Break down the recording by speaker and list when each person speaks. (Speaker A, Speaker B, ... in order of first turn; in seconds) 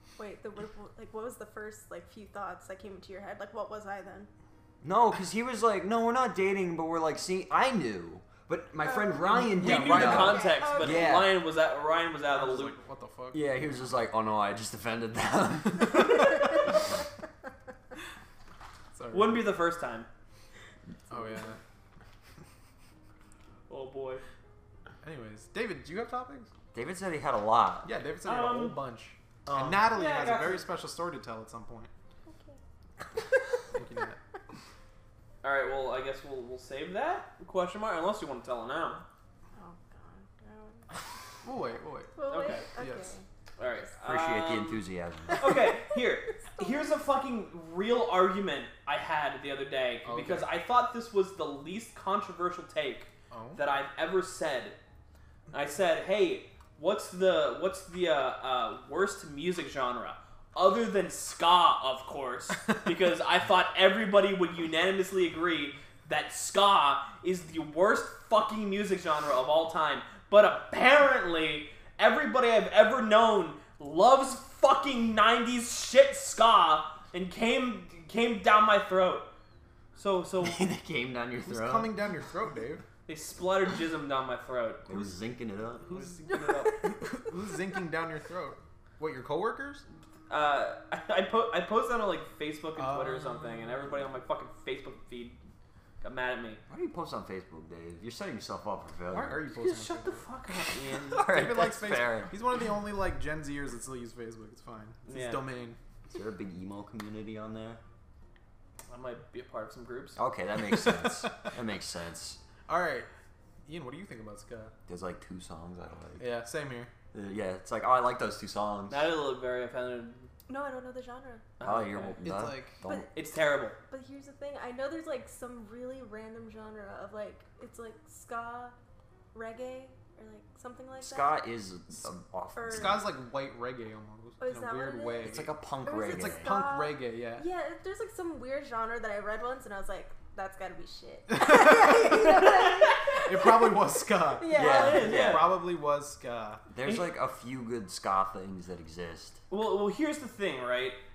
Speaker A: 0.2-4.3, 8.8-11.2, 32.2-32.6, 39.5-40.9, 42.1-43.2, 46.3-46.9, 120.5-121.4, 122.8-123.1, 123.9-128.7, 129.3-131.4, 132.6-133.0, 134.4-143.7, 144.2-145.1
Speaker B: 4.8-11.4, 13.3-16.5, 26.7-27.9, 44.0-45.5, 80.4-81.9, 84.9-85.9, 96.7-99.4, 101.1-102.3, 106.1-107.8, 110.2-112.4, 114.9-116.2, 117.1-119.1, 121.6-123.1, 131.0-133.0, 135.2-136.5, 144.5-145.5, 146.7-149.4
Speaker C: 9.3-12.7, 19.1-20.1, 23.7-24.2, 28.2-28.8, 29.6-30.7, 35.4-39.0, 42.3-42.6, 43.6-44.8, 45.4-54.8, 55.5-79.3, 79.9-80.6, 83.1-85.1, 85.9-86.7, 90.3-95.4, 96.0-96.6, 99.5-101.5, 105.0-105.4, 108.9-110.2, 118.9-120.3, 121.6-122.2, 123.1-123.8, 144.5-145.5, 149.5-151.0
Speaker D: 9.5-10.4, 12.3-13.8, 18.9-19.4, 21.1-21.6, 25.0-26.5, 27.8-31.9, 33.7-34.2, 41.4-42.1, 42.8-43.1, 50.0-50.5, 53.3-53.6, 81.4-82.8, 85.9-89.8, 92.8-93.8, 99.1-100.3, 101.2-105.8, 110.7-111.5, 112.7-113.1, 113.7-114.7, 116.2-116.9, 122.2-122.8, 132.7-137.4, 141.3-142.2, 143.2-146.6